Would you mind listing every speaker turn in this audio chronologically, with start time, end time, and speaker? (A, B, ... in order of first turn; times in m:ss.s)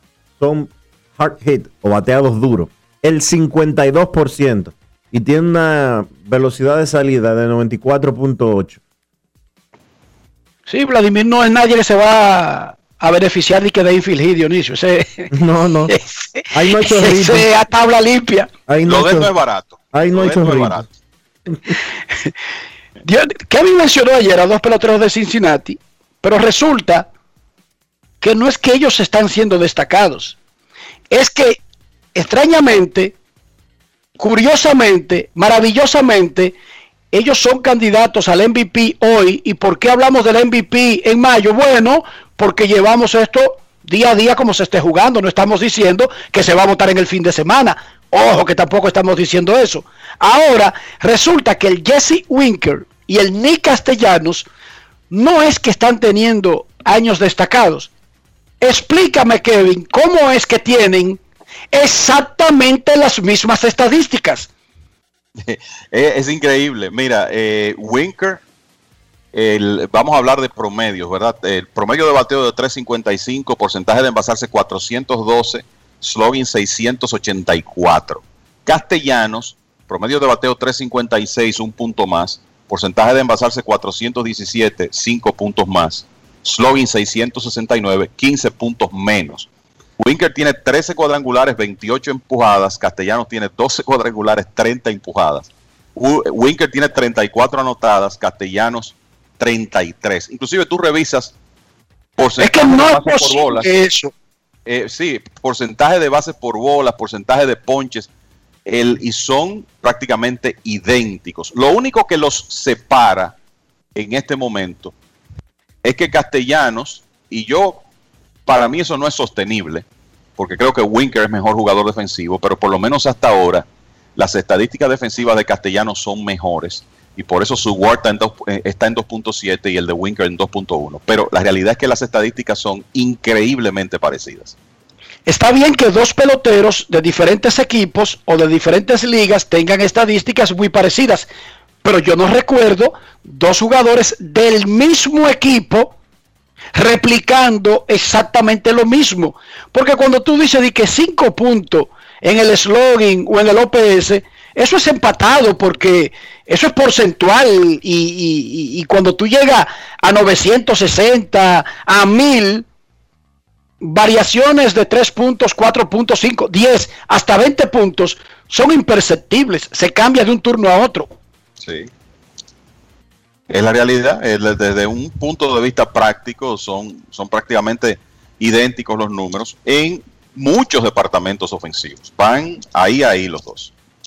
0:00.4-0:08.8 A
0:10.7-0:15.3 B
0:15.3-0:15.9 A
0:15.9-0:18.5 B
0:16.5-0:17.5 A
0:18.7-0:19.3 A
0:18.8-0:20.8 C
0:19.9-0:20.8 A
0:21.5-0:21.7 A
0:23.0-0:27.1 B
0:28.2-0:30.4 B
0:31.1-0:31.6 B
0:32.1-0:33.1 B
0:34.2-0:36.6 B
0:37.1-0:54.5 B
0:55.1-0:57.9 B
0:58.6-1:01.2 B
1:01.7-1:04.5 B
1:05.4-1:08.4 C
1:09.3-1:29.5 C
1:30.0-1:41.3 C
1:42.2-1:43.7 C
1:42.4-1:44.1 B
1:44.6-1:48.1 C
1:48.6-1:53.3 C
1:53.9-1:54.9 C
1:55.8-1:57.8 C
1:58.4-1:59.8 C
2:00.4-2:14.5 C
2:15.3-2:21.3 B
2:21.8-2:26.0 B
2:26.8-2:42.6 B
2:43.8-2:51.2 B
2:51.6-2:51.9 C
2:53.5-3:03.7 C